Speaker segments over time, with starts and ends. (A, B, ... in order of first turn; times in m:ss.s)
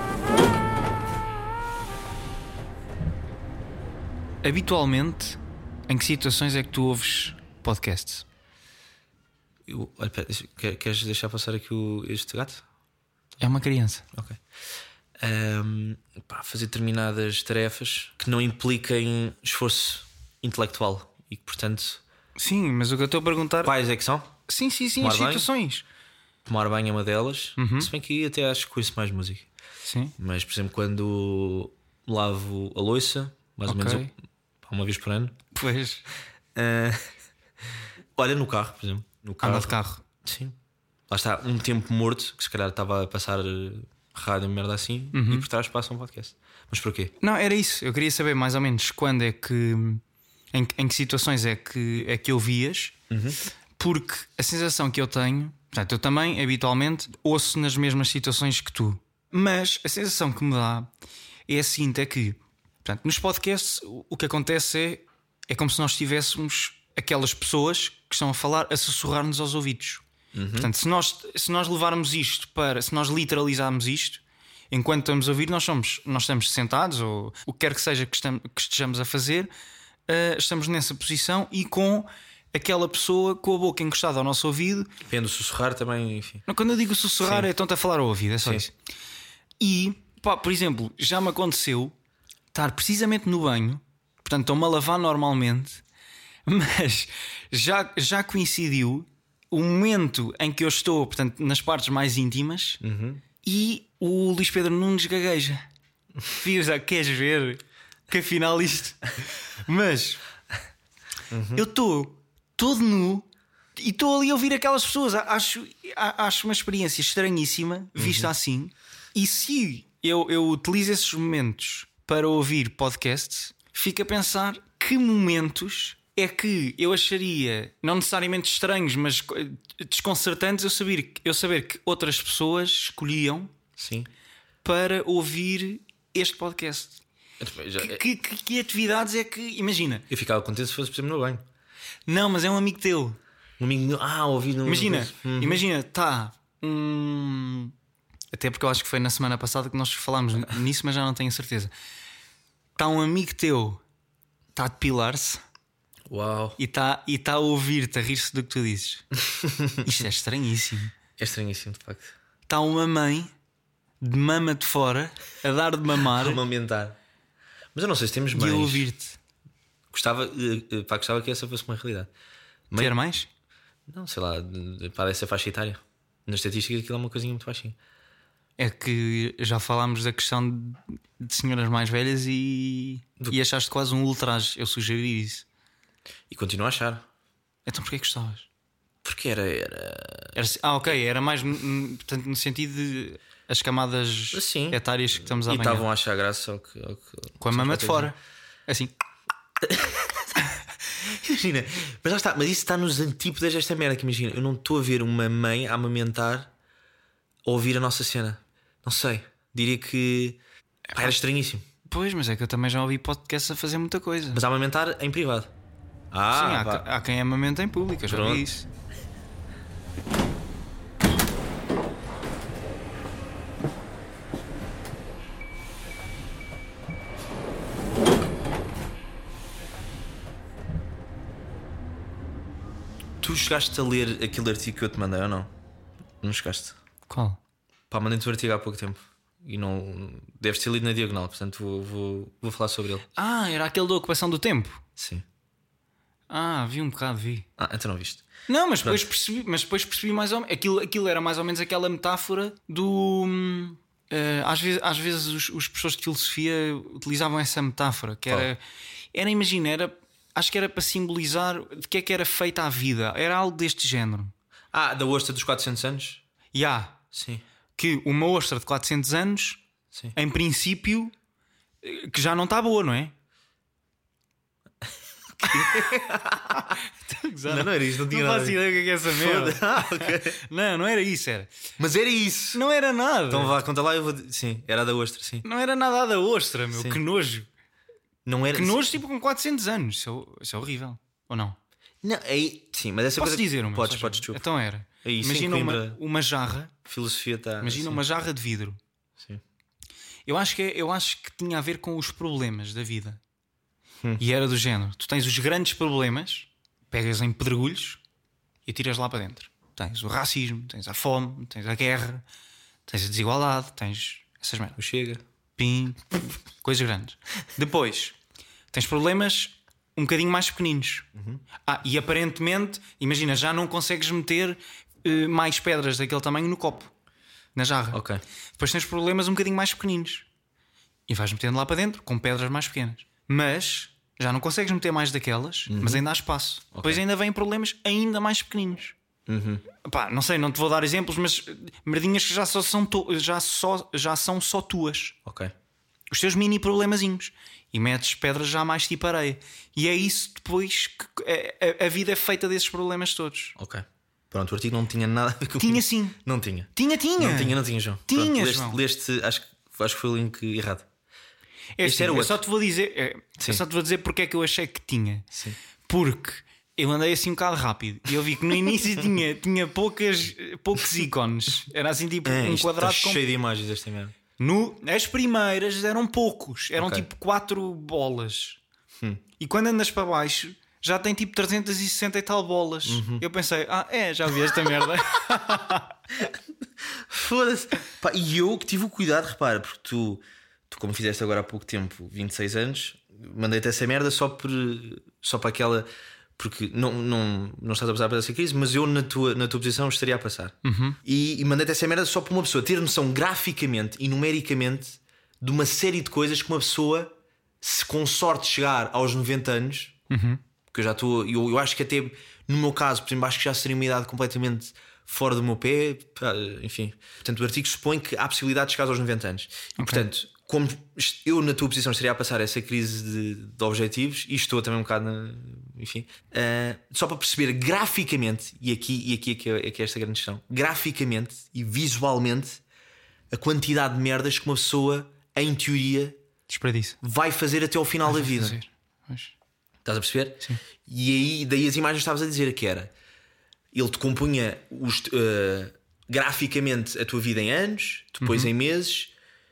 0:04.4-0:05.4 A
0:05.9-0:08.2 A
0:09.7-0:12.6 B
0:13.4-0:14.0 A
0:14.1-0:14.4 B
0:15.2-0:22.0 B
0:22.4-0:23.7 A
0:23.6-0:24.3 B
0:24.5-0:25.8 A
0:25.0-0:25.5 B
0:26.4-0:29.4 B
0:27.6-0:27.9 A
0:29.8-0:30.1 A
0:30.2-0:35.4 B
0:33.7-0:34.1 A
0:35.5-0:36.0 A
0:36.5-0:37.0 B
0:38.2-0:40.6 B
0:39.4-0:40.0 A
0:41.1-0:47.1 B
0:45.1-0:45.5 A
0:47.2-0:50.0 A
0:50.5-0:52.9 A
0:53.1-0:53.4 B
0:53.8-1:00.9 A
1:01.5-1:10.0 A
1:10.3-1:10.7 B
1:10.5-1:19.5 A
1:20.1-1:24.9 A
1:25.0-1:26.4 B
1:26.5-1:28.7 A
1:27.2-1:27.5 B
1:29.6-1:31.9 A
1:32.5-1:35.8 A
1:36.4-1:42.8 A
1:42.8-1:43.2 B
1:43.4-1:45.6 A
1:46.2-1:50.2 A
1:51.3-1:51.6 B
1:51.5-2:13.5 A
1:58.0-1:58.3 B
2:13.8-2:14.1 B
2:14.6-2:17.0 A
2:17.4-2:18.0 B
2:17.8-2:20.0 A
2:20.1-2:21.4 B
2:22.1-2:23.2 A
2:23.6-2:25.6 B
2:24.6-2:27.7 A
2:28.3-2:31.7 A
2:32.8-2:33.8 A
2:34.5-2:35.4 A
2:36.1-2:36.6 B
2:36.6-2:39.0 A
2:39.2-2:40.0 B
2:39.8-2:40.9 A
2:41.2-2:42.1 B
2:42.5-2:43.3 A
2:44.0-2:46.4 A
2:46.0-2:47.0 B
2:47.7-2:48.8 B
2:48.3-2:49.2 A
2:49.9-2:52.1 B
2:52.8-2:53.3 A
2:53.9-2:57.8 B
2:58.6-3:05.4 A
3:06.3-3:07.0 B
3:07.6-3:08.5 A
3:09.0-3:10.4 B
3:10.3-3:15.9 A
3:14.3-3:18.1 B
3:17.4-3:18.1 A
3:18.7-3:18.9 A
3:19.6-3:20.3 B
3:21.0-3:26.5 B
3:27.4-3:30.4 B
3:30.9-3:31.1 A
3:30.9-3:31.6 B
3:31.8-3:34.4 A
3:34.3-3:35.5 B
3:36.1-3:36.8 B
3:36.3-3:38.6 A
3:38.1-3:38.5 B
3:53.2-3:55.5 B
3:56.2-3:56.8 B
3:57.1-3:57.4 A
3:57.9-4:03.0 B
4:03.2-4:04.8 A
4:05.0-4:05.2 B
4:06.3-4:07.5 A
4:07.6-4:08.2 B
4:08.5-4:18.6 A
4:19.1-4:24.3 A
4:24.7-4:26.2 B
4:26.5-4:27.0 A
4:27.1-4:27.4 B
4:27.8-4:29.6 A
4:30.1-4:31.1 A
4:31.8-4:33.1 A
4:35.4-4:36.8 B
4:35.4-4:35.9 A
4:36.5-4:41.5 A
4:37.5-4:40.4 B
4:41.8-4:42.6 B
4:42.5-4:43.5 A
4:43.3-4:45.4 B
4:45.4-4:47.5 A
4:46.7-4:47.0 B
4:48.2-4:48.9 B
4:48.5-4:51.6 A
4:52.0-4:54.4 B
4:53.2-4:56.7 A
4:55.0-4:56.0 B
4:56.8-4:58.0 B
4:57.6-4:58.8 A
5:00.3-5:03.2 A
5:04.2-5:08.0 A
5:08.6-5:12.2 A
5:12.9-5:14.8 A
5:14.8-5:15.2 B
5:15.6-5:18.1 A
5:18.7-5:21.1 A
5:21.1-5:21.4 B
5:21.6-5:26.9 A
5:27.5-5:28.0 A
5:27.9-5:28.2 B
5:28.6-5:30.2 A
5:31.1-5:38.9 A
5:35.7-5:36.0 B
5:36.7-5:37.0 B
5:39.3-5:39.6 B
5:39.8-5:45.2 A
5:45.2-5:45.5 B
5:46.1-5:53.6 A
5:53.6-6:00.9 B
5:55.6-5:56.2 A
5:56.7-5:58.8 A
6:01.8-6:05.3 A
6:01.8-6:02.4 B
6:05.3-6:05.6 B
6:05.8-6:13.2 A
6:12.2-6:14.1 B
6:14.4-6:18.6 A
6:16.8-6:17.0 B
6:19.4-6:25.9 A
6:22.8-6:23.2 B
6:26.9-6:49.9 B
6:40.6-6:41.0 A
6:50.1-6:50.4 A
6:50.7-7:12.6 B
6:59.8-7:00.0 A
7:13.3-7:16.2 B
7:16.5-7:17.0 A
7:17.0-7:18.6 B
7:18.0-7:19.3 A
7:19.8-7:22.9 B
7:23.7-7:29.1 B
7:28.2-7:28.5 A